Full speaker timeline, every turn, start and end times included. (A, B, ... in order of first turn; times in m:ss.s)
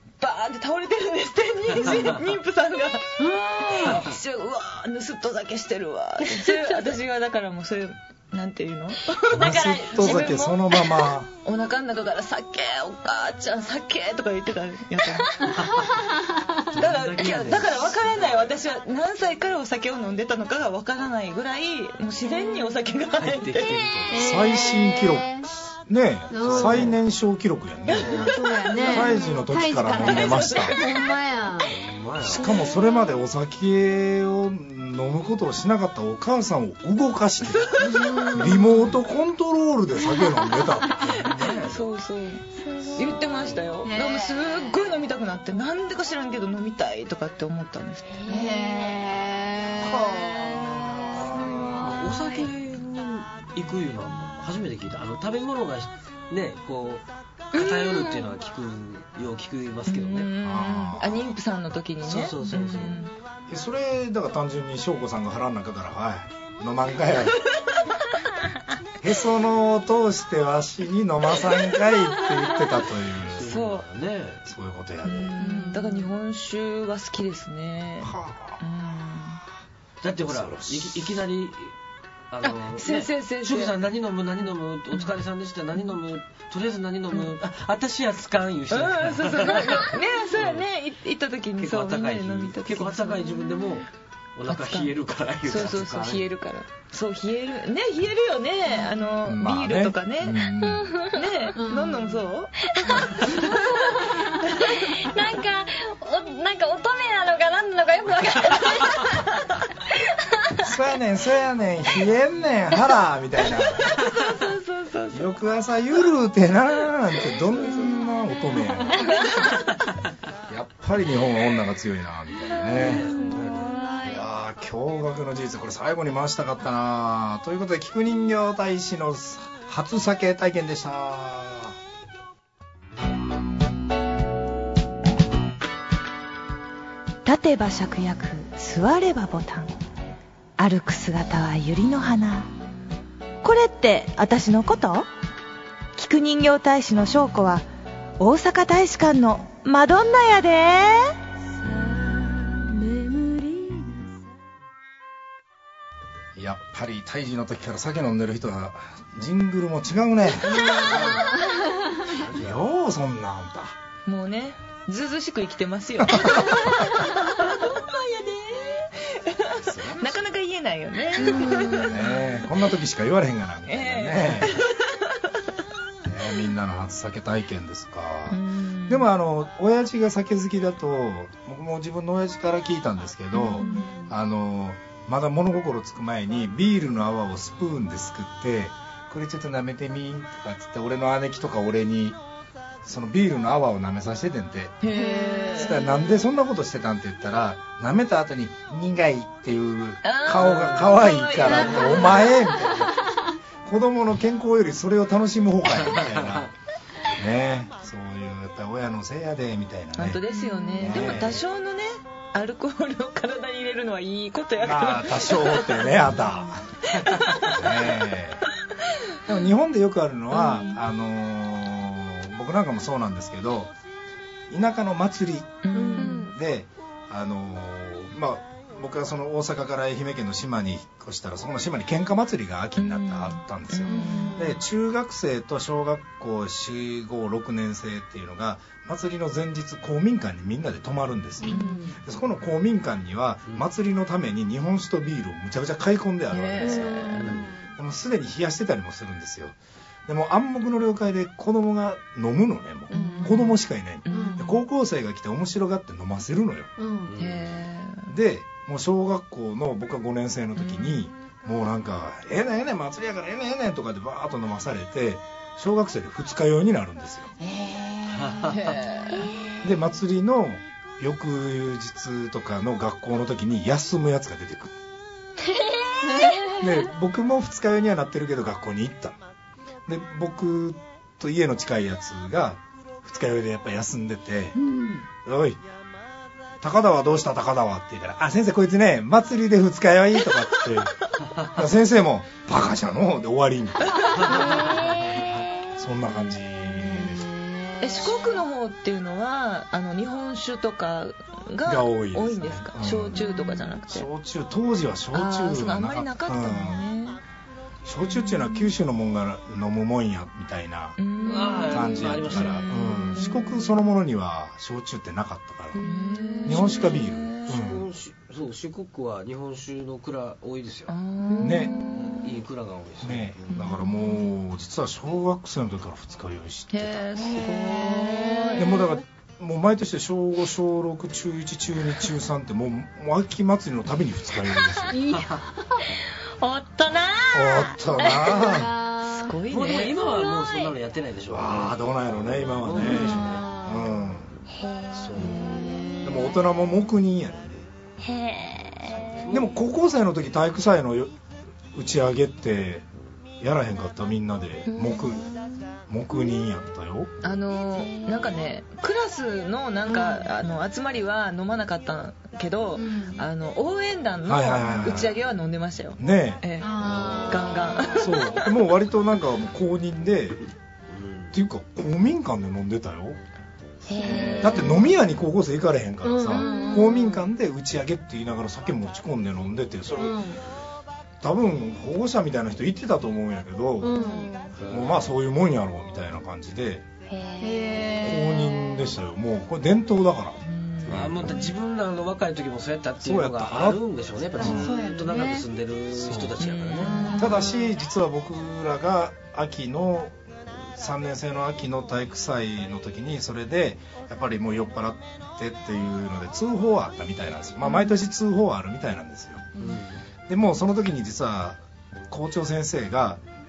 0:00.2-0:10.4 A
0:03.2-0:04.0 B
0:06.3-0:06.9 C
0:09.3-0:10.6 C
0:09.3-0:11.3 D
0:11.4-0:15.4 A
0:15.5-0:16.0 E
0:15.6-0:16.4 B
0:16.7-0:18.5 E
0:16.8-0:23.8 A
0:23.2-0:24.3 E
0:24.1-0:25.5 B
0:24.1-0:30.8 D
0:26.3-0:27.0 B
0:26.4-0:27.0 E
0:27.9-0:31.7 B
0:29.9-0:30.9 A
0:31.6-0:32.5 E
0:32.2-0:41.2 D
0:37.5-0:38.6 A
0:37.8-0:38.9 B
0:41.0-0:41.8 E
0:41.6-0:48.2 A
0:42.6-0:43.4 C
0:43.8-0:44.6 B
0:48.1-0:48.6 C
0:48.2-0:52.2 B
0:49.8-0:51.8 D
0:51.6-1:00.3 E
0:57.5-0:58.3 C
0:59.9-1:03.1 A
1:00.4-1:01.3 D
1:02.0-1:03.0 E
1:03.5-1:07.4 D
1:09.0-1:13.5 D
1:13.2-1:14.4 E
1:13.4-1:13.8 A
1:14.4-1:15.4 D
1:15.0-1:19.4 A
1:15.4-1:16.1 B
1:18.0-1:18.6 D
1:20.0-1:21.7 E
1:20.2-1:21.2 D
1:22.3-1:30.6 E
1:22.7-1:23.7 A
1:28.7-1:33.3 A
1:31.6-1:36.2 E
1:34.5-1:34.9 A
1:35.4-1:40.4 A
1:39.2-1:40.9 D
1:40.6-1:41.5 C
1:41.1-1:43.6 A
1:41.6-1:42.2 B
1:42.6-1:44.1 C
1:43.4-1:44.2 B
1:44.6-1:49.2 C
1:50.0-1:50.7 C
1:50.6-1:53.9 D
1:53.9-1:55.3 A
1:55.1-1:59.1 D
1:57.2-1:57.9 A
1:59.1-1:59.4 C
1:59.3-1:59.6 A
2:00.5-2:03.1 D
2:02.6-2:04.2 C
2:02.8-2:03.7 E
2:04.0-2:11.7 D
2:17.2-2:19.7 F
2:20.6-2:22.5 F
2:23.4-2:25.1 F
2:26.0-2:27.6 F
2:28.2-2:31.0 F
2:32.7-2:34.0 B
2:36.4-2:41.0 D
2:40.4-2:42.2 B
2:40.8-2:41.3 E
2:42.1-2:42.6 E
2:42.3-2:43.8 D
2:44.0-2:52.2 A
2:46.0-2:46.8 D
2:49.6-2:50.1 D
2:51.2-2:52.0 B
2:51.6-2:54.6 D
2:53.7-2:54.9 A
2:56.0-3:12.2 D
2:58.3-2:59.1 A
3:03.4-3:04.1 B
3:03.6-3:03.8 A
3:12.8-3:14.8 D
3:14.8-3:15.8 A
3:14.9-3:16.1 B
3:15.5-3:22.9 D
3:20.0-3:22.4 A
3:20.4-3:20.8 E
3:21.5-3:22.8 B
3:23.6-3:26.5 D
3:25.8-3:26.5 E
3:27.1-3:30.2 D
3:30.0-3:36.0 A
3:30.3-3:31.1 B
3:30.8-3:31.4 D
3:34.6-3:38.4 D
3:37.0-3:37.6 A
3:39.2-3:43.7 D
3:40.3-3:40.8 A
3:44.5-4:09.6 D
3:45.6-3:46.2 A
3:45.7-3:46.2 B
3:45.9-3:46.3 C
3:52.8-3:54.5 A
3:53.9-3:54.6 B
4:01.4-4:01.9 B
4:01.5-4:01.9 A
4:06.3-4:07.2 A
4:06.6-4:07.7 B
4:07.2-4:07.5 E
4:10.1-4:16.7 D
4:12.9-4:14.6 A
4:12.9-4:13.4 B
4:14.1-4:14.5 B
4:16.8-4:17.1 B
4:17.0-4:17.5 E
4:17.2-4:18.1 A
4:18.1-4:27.3 D
4:20.6-4:21.0 A
4:27.4-4:29.7 B
4:28.1-4:28.8 E
4:28.5-4:29.1 A
4:29.1-4:29.5 C
4:29.6-4:34.8 D
4:35.4-4:36.3 C
4:36.0-4:36.5 B
4:36.6-4:39.2 D
4:39.9-4:44.6 D
4:44.5-4:45.0 B
4:45.2-4:45.6 D
4:46.6-4:54.0 D
4:54.2-4:55.4 E
4:54.2-4:55.3 C
4:55.8-4:57.3 D
4:56.6-4:58.3 B
4:57.8-5:04.1 A
5:01.7-5:03.2 D
5:03.2-5:03.5 B
5:03.9-5:06.8 D
5:05.1-5:07.2 A
5:07.8-5:11.0 D
5:08.1-5:08.7 A
5:11.0-5:13.7 A
5:11.2-5:12.7 E
5:11.6-5:15.9 D
5:15.8-5:17.5 A
5:16.4-5:17.8 D
5:17.4-5:21.0 E
5:20.9-5:22.3 A
5:21.3-5:21.7 C
5:21.4-5:21.7 D
5:22.0-5:23.7 E
5:23.0-5:27.1 D
5:23.6-5:23.8 A
5:26.7-5:28.8 A
5:27.2-5:29.0 B
5:28.6-5:34.9 D
5:34.9-5:35.8 B
5:35.1-5:35.4 E
5:36.4-5:38.2 C
5:37.3-5:38.7 D
5:38.0-5:39.4 B
5:39.1-5:39.9 A
5:39.5-5:43.4 E
5:40.0-5:40.7 C
5:41.3-5:44.3 D
5:42.8-5:44.0 B
5:44.5-5:45.1 C
5:44.9-5:45.4 E
5:45.1-5:47.7 D
5:45.1-5:46.5 B
5:48.0-5:49.2 C
5:48.9-5:49.5 E
5:49.3-5:51.1 D
5:51.7-5:52.9 D
5:53.4-5:55.2 D
5:54.7-5:55.0 C
5:55.9-5:57.1 D
5:57.2-6:06.7 A
5:57.9-5:58.4 C
5:59.9-6:00.2 B
6:02.8-6:03.2 B
6:04.2-6:05.2 D
6:06.0-6:06.4 D
6:06.6-6:08.4 B
6:06.8-6:07.6 E
6:07.3-6:08.4 A
6:08.0-6:10.4 D
6:10.9-6:11.3 E
6:11.3-6:13.2 D
6:13.9-6:14.8 C
6:13.9-6:20.2 D
6:14.0-6:14.8 B
6:14.0-6:14.5 E
6:16.0-6:17.2 B
6:20.0-6:20.4 B
6:21.2-6:23.9 D
6:23.8-6:24.3 B
6:23.9-6:24.5 C
6:24.5-6:25.1 E
6:24.7-6:26.8 D
6:27.1-6:27.8 C
6:27.4-6:28.9 B
6:28.0-6:31.4 D
6:30.4-6:31.0 A
6:30.9-6:37.2 E
6:33.0-6:34.8 D
6:34.4-6:35.5 B
6:35.9-6:36.4 D
6:36.4-6:37.2 A
6:36.8-6:37.7 B
6:37.2-6:49.4 D
6:49.6-6:50.0 E
6:50.3-6:53.2 D